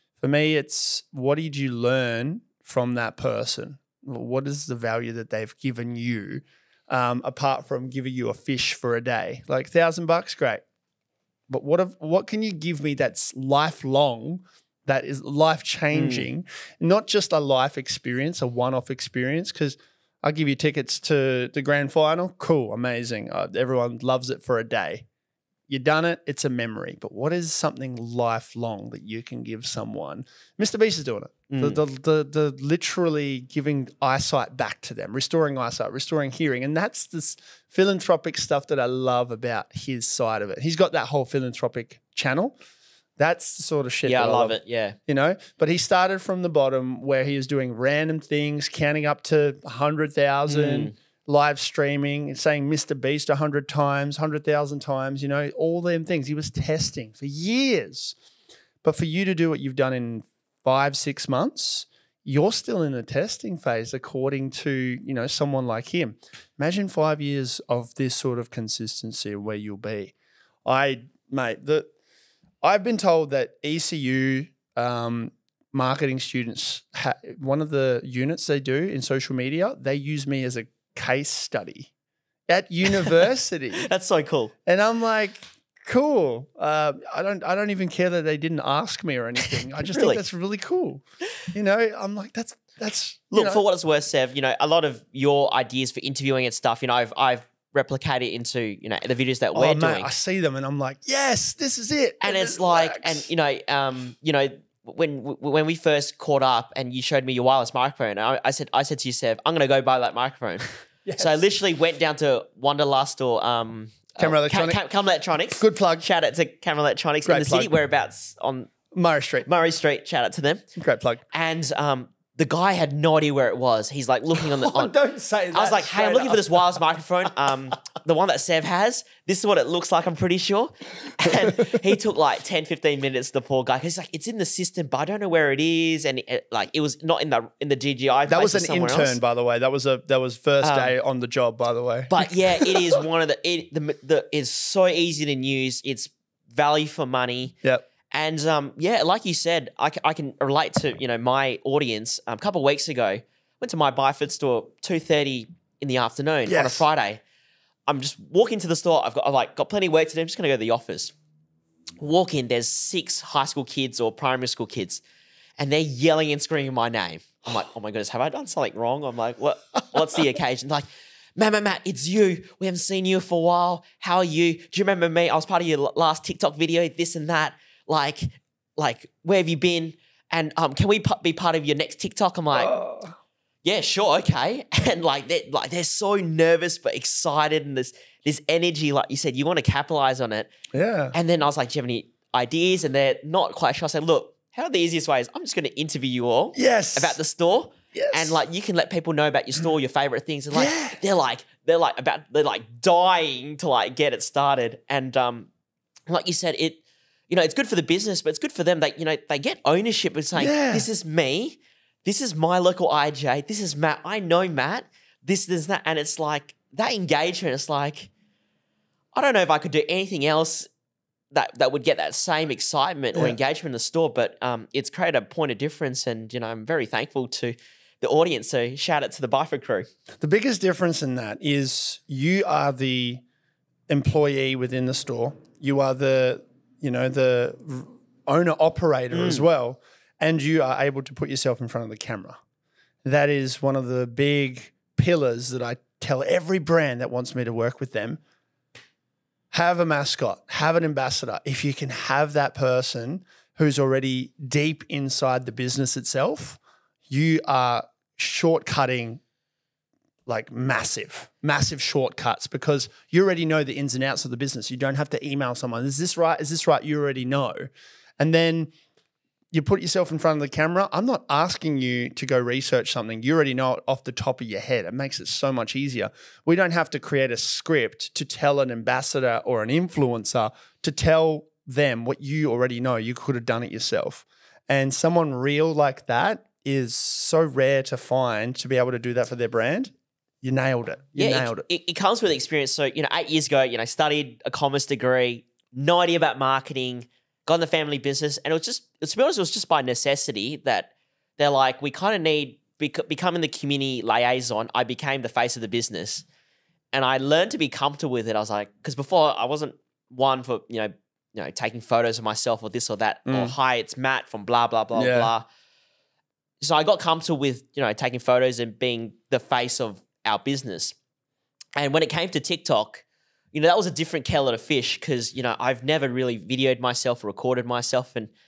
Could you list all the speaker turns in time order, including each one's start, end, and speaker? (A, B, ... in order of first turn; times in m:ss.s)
0:00.2-0:10.6 A
0:11.5-0:25.0 A
0:15.9-0:16.3 B
0:25.7-0:42.5 A
0:31.5-0:31.8 B
0:43.2-0:58.2 A
0:44.0-0:45.0 B
0:50.5-0:50.9 B
0:58.8-1:10.1 A
1:10.6-1:11.9 A
1:12.6-1:21.9 A
1:22.5-1:23.9 A
1:23.8-1:24.5 B
1:24.6-1:33.6 A
1:29.9-1:30.2 B
1:33.3-1:40.1 B
1:39.5-1:43.3 A
1:42.2-1:58.7 B
1:51.0-1:51.4 A
1:54.2-1:54.8 A
1:55.6-1:56.0 A
1:57.2-1:57.7 A
1:58.9-1:59.5 A
1:59.4-2:00.6 B
2:00.8-2:01.2 A
2:01.3-2:04.9 B
2:04.4-2:06.8 A
2:05.5-2:19.2 B
2:11.2-2:11.8 A
2:18.3-2:22.9 A
2:20.6-2:20.9 B
2:22.1-2:27.6 B
2:28.1-2:37.2 B
2:36.5-2:36.8 A
2:37.9-2:41.1 B
2:42.0-2:45.0 B
2:45.6-3:02.7 B
3:02.5-3:03.1 A
3:03.6-3:10.5 B
3:10.7-3:11.1 A
3:11.1-3:25.5 B
3:16.5-3:17.2 A
3:17.9-3:18.4 A
3:20.5-3:21.0 A
3:26.1-3:38.1 B
3:30.4-3:30.9 A
3:39.1-3:40.7 B
3:41.3-3:49.9 B
3:50.2-3:53.2 A
3:53.9-4:02.4 A
3:59.1-3:59.4 B
4:03.0-4:08.2 A
4:09.5-4:19.2 A
4:20.2-4:28.7 A
4:29.5-4:51.6 A
4:51.2-5:06.2 B
5:06.9-5:15.4 B
5:13.3-5:13.5 A
5:14.9-5:15.3 A
5:16.6-5:20.9 B
5:21.8-5:28.3 B